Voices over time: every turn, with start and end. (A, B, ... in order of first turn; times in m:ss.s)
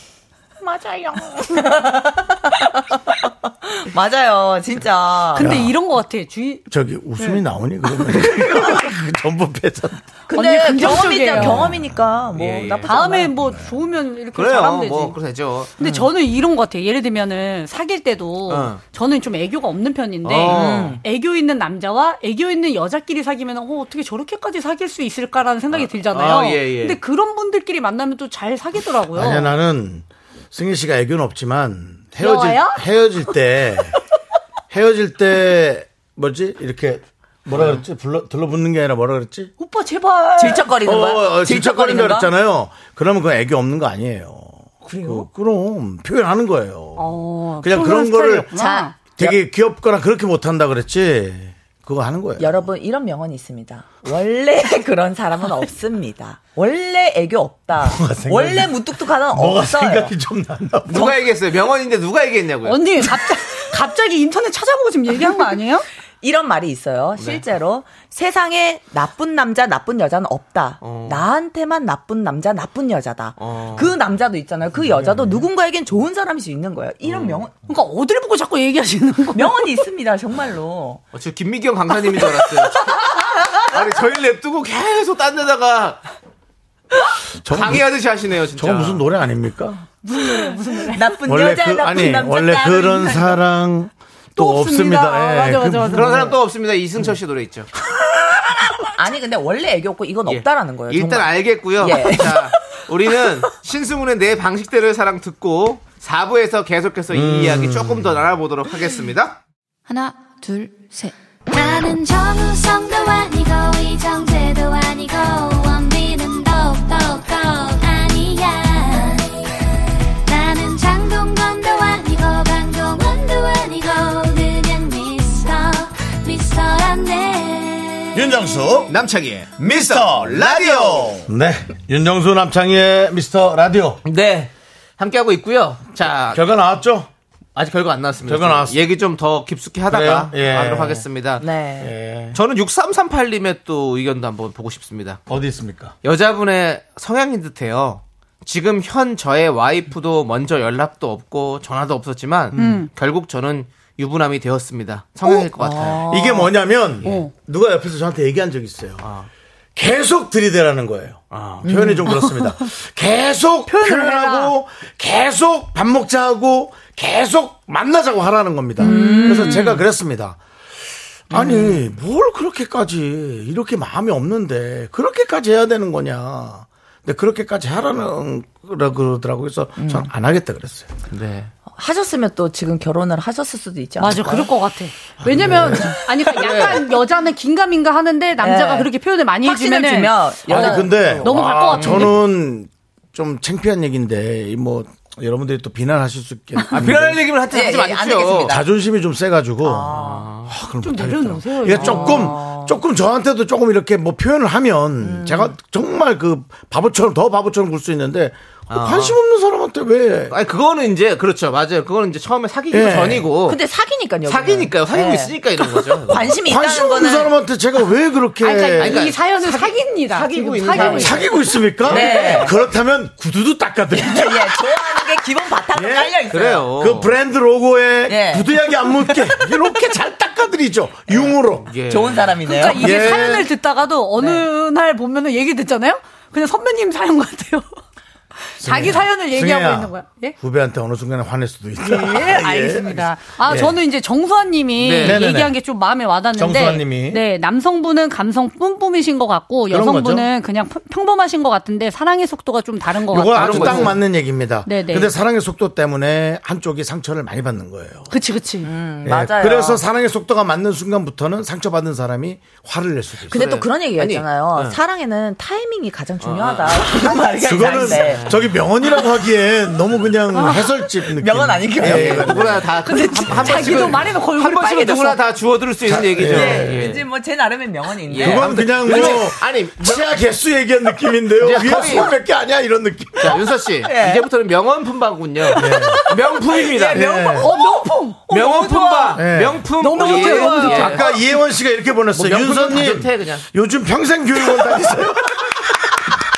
0:00.6-0:05.6 A
0:05.3-0:06.6 B
0:05.4-0:05.7 C
0:06.7-0:10.0 C
0:10.3-0:13.4 A
0:10.3-0:11.7 B
0:12.3-0:13.0 D
0:12.9-0:15.2 B
0:14.3-0:15.7 D
0:15.8-0:29.5 B
0:18.5-0:18.8 D
0:20.2-0:21.0 D
0:20.5-0:21.0 A
0:25.7-0:27.0 D
0:29.1-0:34.0 C
0:32.2-0:32.8 B
0:34.7-0:39.5 C
0:37.5-0:37.8 D
0:39.6-0:40.7 B
0:40.4-0:42.3 A
0:40.8-0:48.5 C
0:44.8-0:45.3 B
0:47.0-0:49.0 B
0:48.5-0:49.1 A
0:49.2-0:52.6 C
0:52.4-1:00.1 A
0:57.8-1:01.1 C
1:00.9-1:02.8 D
1:02.6-1:05.8 B
1:06.2-1:17.6 A
1:07.2-1:07.4 D
1:10.8-1:11.2 D
1:13.4-1:13.9 D
1:15.0-1:15.3 D
1:17.0-1:17.4 D
1:17.7-1:19.6 B
1:19.3-1:21.0 A
1:21.1-1:23.0 D
1:23.3-1:23.6 A
1:23.7-1:26.0 D
1:27.4-1:27.9 C
1:27.5-1:29.0 D
1:28.6-1:29.8 C
1:30.0-1:31.1 B
1:30.8-1:33.4 A
1:31.2-1:36.3 C
1:34.4-1:36.3 B
1:35.9-1:37.7 D
1:39.0-1:42.5 A
1:40.3-1:49.4 D
1:47.1-1:48.2 C
1:51.5-1:59.2 E
2:00.3-2:08.0 E
2:08.1-2:08.9 C
2:08.9-2:11.3 D
2:09.6-2:14.0 C
2:14.0-2:16.5 D
2:16.3-2:17.1 C
2:17.6-2:21.4 D
2:18.2-2:18.8 C
2:19.9-2:21.0 C
2:21.4-2:21.9 A
2:21.8-2:22.4 C
2:22.3-2:25.2 D
2:25.3-2:25.9 C
2:26.0-2:36.0 D
2:32.6-2:32.9 B
2:35.3-2:36.5 A
2:35.9-2:39.1 C
2:37.0-2:37.3 B
2:39.0-2:39.3 D
2:39.8-2:50.4 C
2:41.3-2:41.7 D
2:41.6-2:42.1 A
2:43.7-2:44.5 B
2:48.8-2:49.7 B
2:48.8-2:49.8 A
2:51.3-3:00.9 C
2:51.3-2:51.8 A
2:59.8-3:00.1 A
3:01.1-3:01.5 D
3:01.7-3:04.5 A
3:04.0-3:12.1 B
3:05.2-3:06.0 C
3:06.3-3:06.8 D
3:08.4-3:08.9 A
3:09.4-3:12.1 A
3:10.5-3:17.2 C
3:16.7-3:18.5 D
3:17.5-3:18.6 A
3:18.4-3:20.0 C
3:19.6-3:20.3 A
3:19.9-3:20.5 D
3:20.5-3:30.3 C
3:20.8-3:22.3 B
3:21.7-3:22.3 D
3:22.1-3:22.7 A
3:25.0-3:25.5 A
3:28.7-3:29.2 D
3:30.3-3:33.6 D
3:32.7-3:33.3 C
3:33.4-3:35.4 A
3:34.3-3:36.3 D
3:36.1-3:37.3 A
3:36.4-3:39.0 C
3:38.4-3:42.4 B
3:38.8-3:41.3 D
3:40.7-3:45.0 C
3:41.8-3:42.5 D
3:41.9-3:42.5 A
3:44.0-3:46.7 A
3:45.7-3:46.2 C
3:46.3-3:47.1 D
3:46.8-3:51.7 C
3:48.1-3:49.4 A
3:51.6-3:52.4 D
3:51.9-3:53.2 A
3:52.4-3:57.7 B
3:52.8-3:53.5 C
3:58.6-4:00.4 B
3:58.6-4:03.8 C
4:01.8-4:14.0 B
4:04.8-4:05.2 D
4:05.0-4:05.6 C
4:06.3-4:07.2 C
4:09.7-4:10.3 C
4:13.1-4:18.1 C
4:13.3-4:14.0 D
4:14.6-4:15.1 B
4:18.1-4:18.7 B
4:18.6-4:19.8 A
4:19.0-4:23.4 C
4:23.3-4:28.3 A
4:23.3-4:24.8 D
4:26.2-4:26.9 D
4:27.4-4:32.7 C
4:27.7-4:28.4 D
4:30.4-4:30.6 B
4:31.1-4:32.6 A
4:31.8-4:37.0 D
4:32.8-4:35.2 B
4:35.9-4:36.8 C
4:36.2-4:39.1 A
4:38.1-4:40.0 D
4:38.2-4:43.4 C
4:41.4-4:42.1 D
4:43.2-4:47.0 D
4:43.8-4:44.3 A
4:45.5-4:46.1 C
4:45.8-4:48.8 A
4:46.9-4:47.5 C
4:47.4-4:49.2 B
4:48.3-4:51.1 D
4:49.1-4:49.7 C
4:49.8-4:51.1 B
4:50.7-4:55.6 C
4:52.1-4:53.4 D